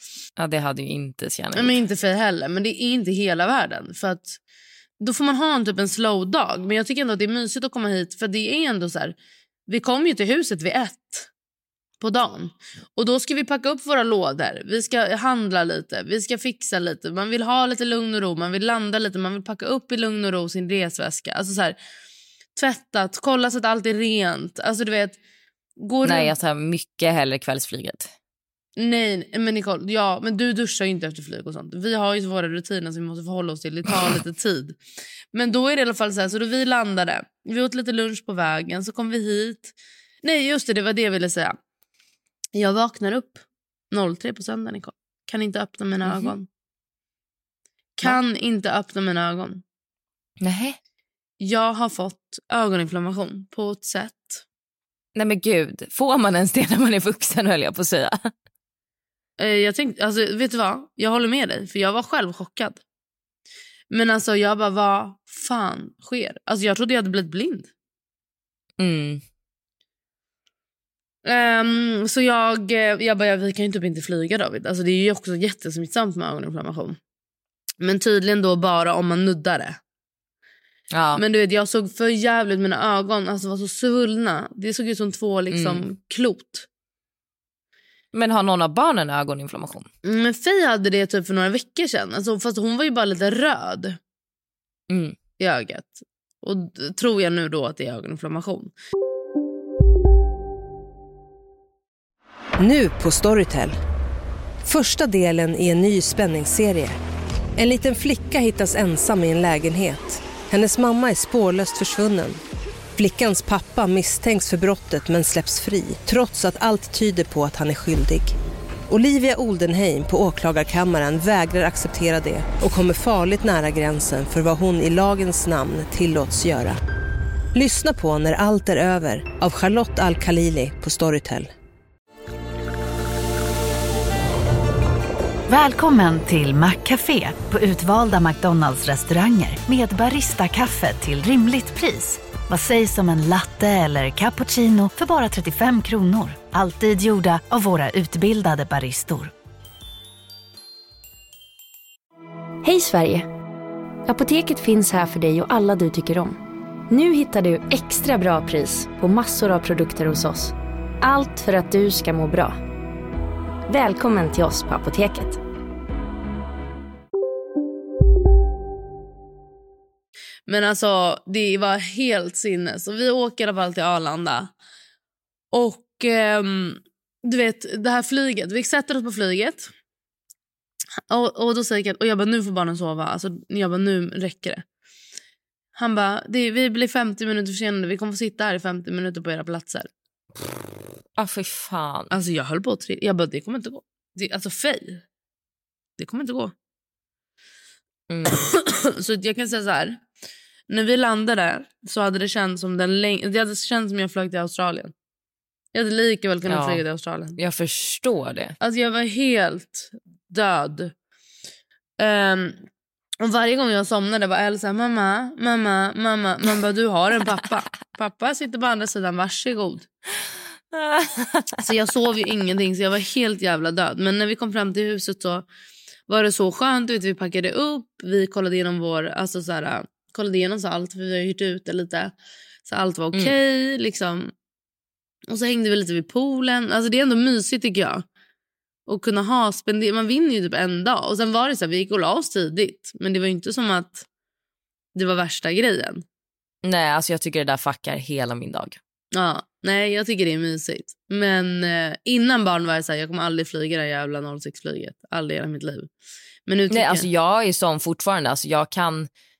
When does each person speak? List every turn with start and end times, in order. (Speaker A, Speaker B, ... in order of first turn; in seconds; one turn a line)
Speaker A: 0.4-1.8
Speaker B: 1.5-4.4
Speaker B: 5.0-9.1
Speaker B: 9.7-11.3
Speaker B: 12.0-21.8
Speaker B: 22.6-25.2
Speaker B: 25.8-26.3
Speaker A: 26.0-28.1
Speaker B: 28.8-34.8
Speaker B: 35.3-41.6
Speaker B: 42.5-46.5
Speaker A: 46.0-46.3
Speaker B: 48.0-49.6
Speaker A: 50.4-50.8
Speaker B: 51.4-54.4
Speaker A: 55.1-58.3
Speaker B: 59.4-62.8
Speaker B: 63.9-67.7
Speaker A: 68.8-69.2
Speaker B: 71.2-77.0
Speaker B: 77.8-79.8
Speaker A: 80.9-81.2
Speaker B: 81.2-86.7
Speaker A: 85.5-85.8
Speaker A: 88.1-89.9
Speaker B: 90.0-94.0
Speaker A: 94.9-95.2
Speaker B: 95.4-98.7
Speaker C: 102.6-103.8
Speaker C: 104.6-107.0
Speaker C: 107.5-112.4
Speaker C: 113.0-118.3
Speaker C: 118.9-126.8
Speaker C: 127.5-131.5
Speaker D: 135.5-149.3
Speaker E: 152.6-153.3
Speaker E: 154.1-156.4
Speaker E: 156.9-162.6
Speaker E: 163.7-165.4
Speaker B: 170.5-174.5
Speaker B: 175.5-179.7
Speaker B: 181.1-184.6
Speaker B: 185.8-189.9
Speaker A: 191.2-192.1
Speaker B: 192.1-195.0
Speaker B: 196.0-196.5
Speaker A: 198.1-198.5
Speaker B: 198.3-200.0
Speaker B: 200.7-204.9
Speaker B: 205.7-207.4
Speaker A: 206.4-206.8
Speaker A: 207.3-208.6
Speaker B: 208.6-210.9
Speaker B: 212.0-212.6
Speaker B: 213.2-219.9
Speaker A: 220.7-221.6
Speaker B: 221.6-225.4
Speaker B: 226.1-232.1
Speaker B: 232.7-234.3
Speaker B: 235.3-238.1
Speaker B: 238.9-244.0
Speaker B: 244.9-246.0
Speaker A: 246.6-248.8
Speaker B: 249.1-255.9
Speaker B: 256.5-257.1
Speaker A: 256.7-259.1